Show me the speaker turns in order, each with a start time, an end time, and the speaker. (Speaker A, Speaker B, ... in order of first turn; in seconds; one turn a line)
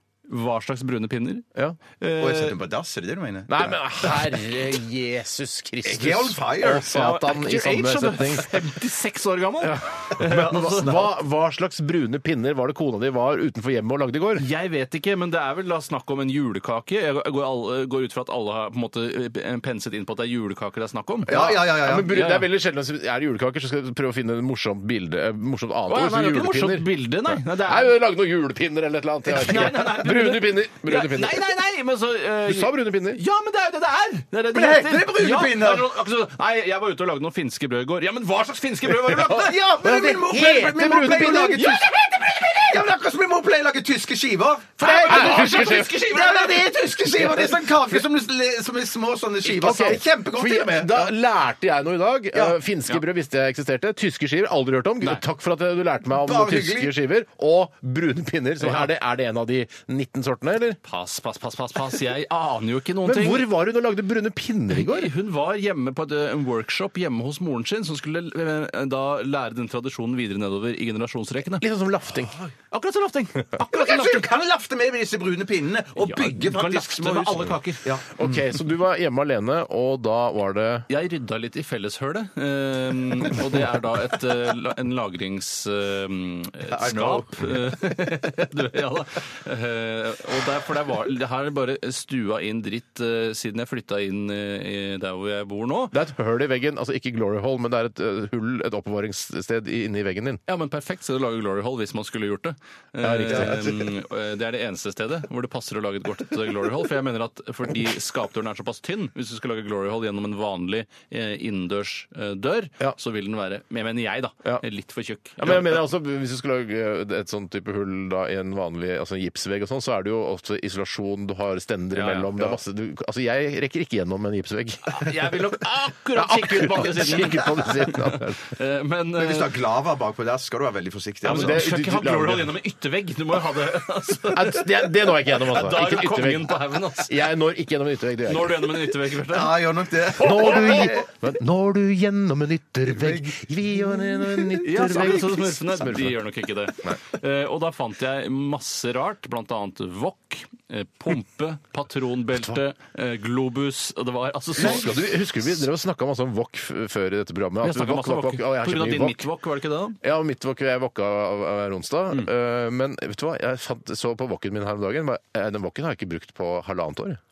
Speaker A: 0.3-1.4
Speaker A: 2.0-2.6
Speaker B: 2.2-4.4
Speaker C: 3.5-8.6
Speaker B: 5.8-6.9
Speaker A: 6.8-11.1
Speaker C: 9.6-14.4
Speaker A: 14.3-21.5
Speaker B: 21.3-22.2
Speaker C: 21.3-31.5
Speaker A: 22.1-22.4
Speaker A: 25.9-27.9
Speaker A: 29.3-39.7
Speaker C: 32.4-33.2
Speaker B: 34.5-36.0
Speaker C: 39.1-41.8
Speaker B: 39.1-51.1
Speaker A: 41.5-42.9
Speaker A: 44.8-46.6
Speaker C: 44.8-46.2
Speaker C: 47.2-47.7
Speaker C: 49.4-60.8
Speaker B: 56.1-56.9
Speaker A: 60.8-63.5
Speaker C: 63.0-65.1
Speaker A: 64.7-71.7
Speaker C: 71.6-72.4
Speaker A: 72.7-74.3
Speaker B: 73.7-78.4
Speaker A: 76.0-77.9
Speaker C: 78.2-80.9
Speaker A: 80.9-96.0
Speaker B: 86.7-87.8
Speaker C: 95.9-100.4
Speaker A: 100.5-115.8
Speaker C: 103.0-103.8
Speaker B: 103.3-103.7
Speaker C: 115.4-125.3
Speaker A: 121.9-122.6
Speaker A: 124.8-129.5
Speaker C: 126.1-128.4
Speaker B: 129.2-131.6
Speaker C: 131.2-132.5
Speaker A: 131.2-137.2
Speaker C: 134.3-138.7
Speaker A: 138.2-139.6
Speaker B: 139.1-141.1
Speaker A: 140.2-140.9
Speaker C: 140.2-146.2
Speaker B: 142.8-145.1
Speaker A: 144.6-155.1
Speaker C: 152.3-152.6
Speaker C: 154.6-159.3
Speaker A: 157.6-160.0
Speaker C: 160.0-167.2